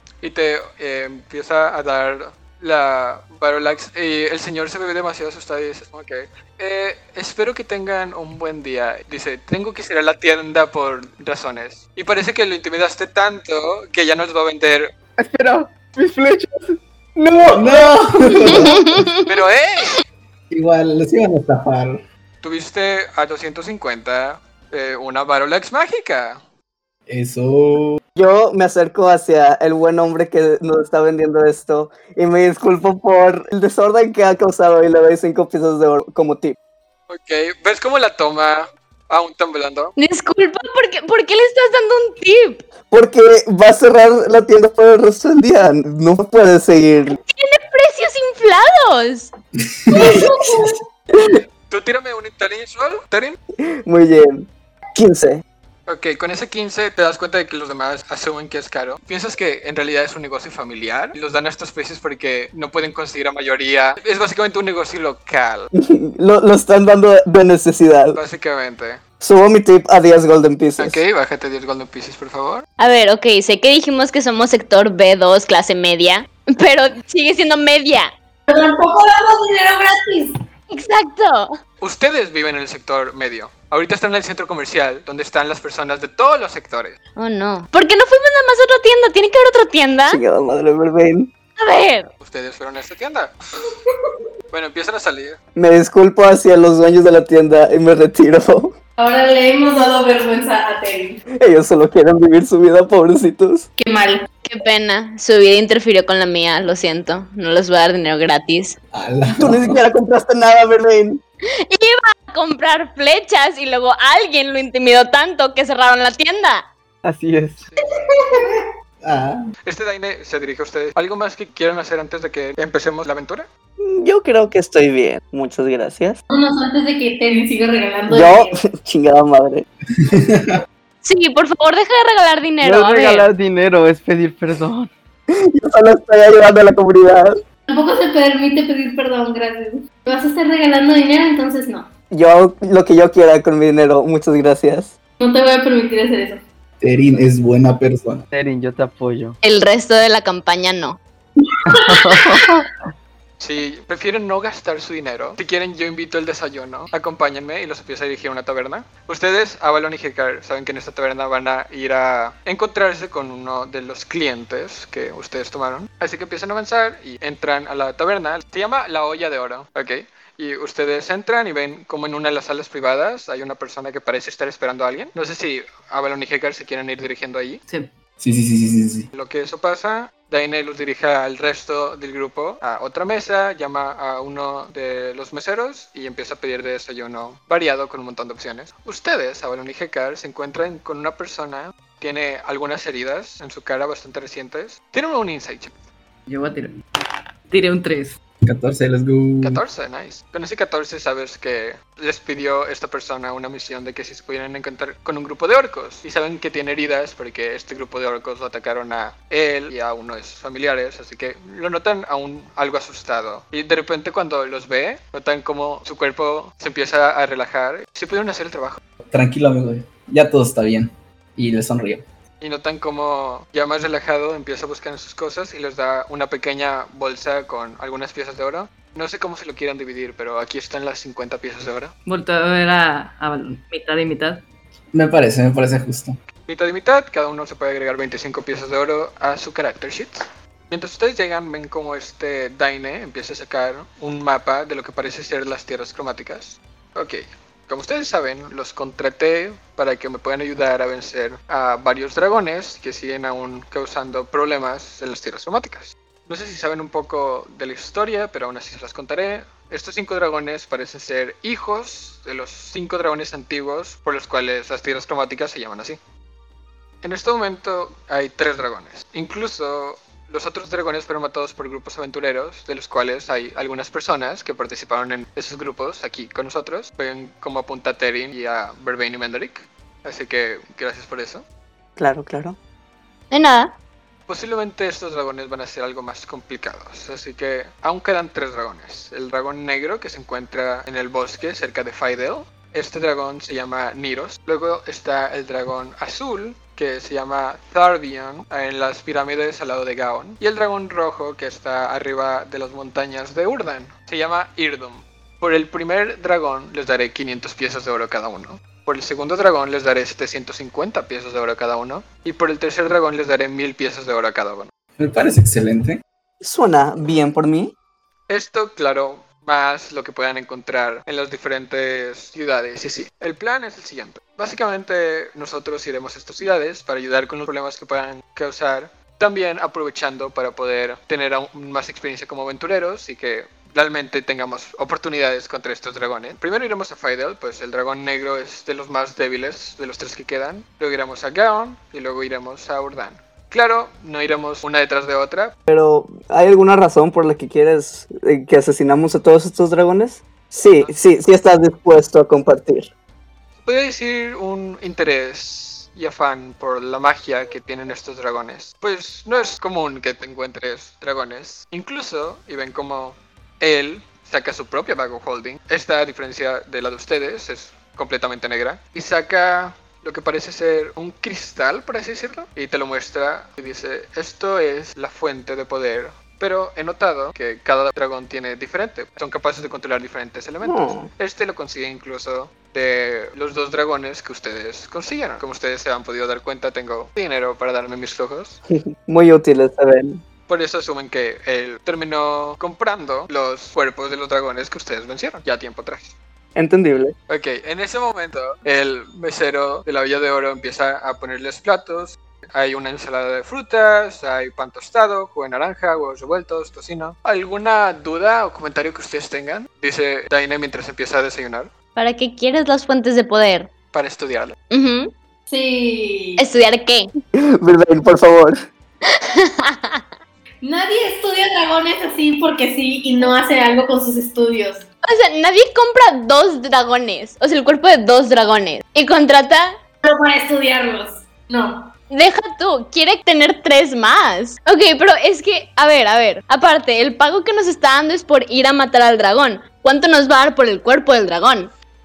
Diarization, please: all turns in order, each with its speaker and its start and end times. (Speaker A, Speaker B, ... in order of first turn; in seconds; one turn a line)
Speaker A: 0.2-14.9
Speaker B: 15.2-18.9
Speaker C: 17.5-19.0
Speaker D: 18.6-19.2
Speaker A: 19.3-20.0
Speaker C: 20.5-22.0
Speaker A: 22.4-26.4
Speaker C: 27.1-28.0
Speaker E: 28.2-36.6
Speaker A: 37.1-39.9
Speaker D: 40.0-42.6
Speaker E: 42.9-47.2
Speaker D: 47.2-49.3
Speaker C: 49.6-50.5
Speaker F: 50.0-50.7
Speaker A: 51.7-53.4
Speaker E: 53.9-55.4
Speaker A: 55.9-65.7
Speaker E: 65.8-68.2
Speaker A: 68.1-69.0
Speaker E: 69.2-71.0
Speaker A: 70.8-72.7
Speaker D: 72.8-78.1
Speaker F: 78.5-80.3
Speaker D: 80.7-81.5
Speaker A: 81.8-87.0
Speaker D: 87.2-90.2
Speaker E: 90.1-91.3
Speaker D: 91.6-92.1
Speaker A: 92.2-93.3
Speaker A: 94.5-95.4
Speaker E: 95.6-98.7
Speaker F: 99.0-101.2
Speaker E: 101.4-103.7
Speaker F: 103.8-104.3
Speaker D: 104.4-108.8
Speaker C: 108.9-109.8
Speaker E: 109.4-111.2
Speaker D: 111.6-116.6
Speaker B: 117.0-117.6
Speaker F: 118.1-118.7
Speaker C: 119.0-119.4
Speaker A: 119.7-123.5
Speaker E: 123.8-126.2
Speaker F: 126.3-128.6
Speaker E: 128.1-129.7
Speaker C: 130.0-130.6
Speaker D: 131.0-133.3
Speaker B: 132.6-134.9
Speaker E: 135.3-137.4
Speaker F: 137.7-141.9
Speaker E: 142.1-144.9
Speaker F: 145.2-146.4
Speaker C: 146.8-148.2
Speaker B: 148.3-149.4
Speaker D: 149.4-151.0
Speaker F: 151.7-152.6
Speaker B: 151.7-152.5
Speaker A: 153.4-177.6
Speaker C: 178.2-179.1
Speaker A: 179.1-195.8
Speaker G: 196.3-196.8
Speaker G: 197.5-198.2
Speaker C: 198.4-199.6
Speaker A: 199.4-218.8
Speaker C: 219.1-222.0
Speaker A: 222.4-231.9
Speaker G: 232.1-234.4
Speaker C: 234.9-236.2
Speaker A: 236.5-266.0
Speaker A: 267.0-281.4
Speaker E: 282.0-282.6
Speaker D: 283.3-283.7
Speaker A: 284.3-314.7
Speaker C: 315.0-316.0
Speaker E: 316.4-317.7
Speaker A: 318.3-345.5
Speaker E: 345.7-352.9
Speaker A: 353.6-388.6
Speaker E: 380.6-381.1
Speaker E: 389.1-390.2
Speaker A: 390.5-396.1
Speaker E: 396.6-397.1
Speaker A: 397.3-411.7
Speaker D: 412.0-413.7
Speaker A: 413.9-414.6
Speaker D: 414.7-415.1
Speaker F: 415.5-416.4
Speaker D: 416.4-417.1
Speaker E: 417.4-418.6
Speaker D: 419.1-420.1
Speaker F: 420.6-424.9
Speaker D: 425.1-429.7
Speaker F: 430.0-431.9
Speaker D: 432.1-441.7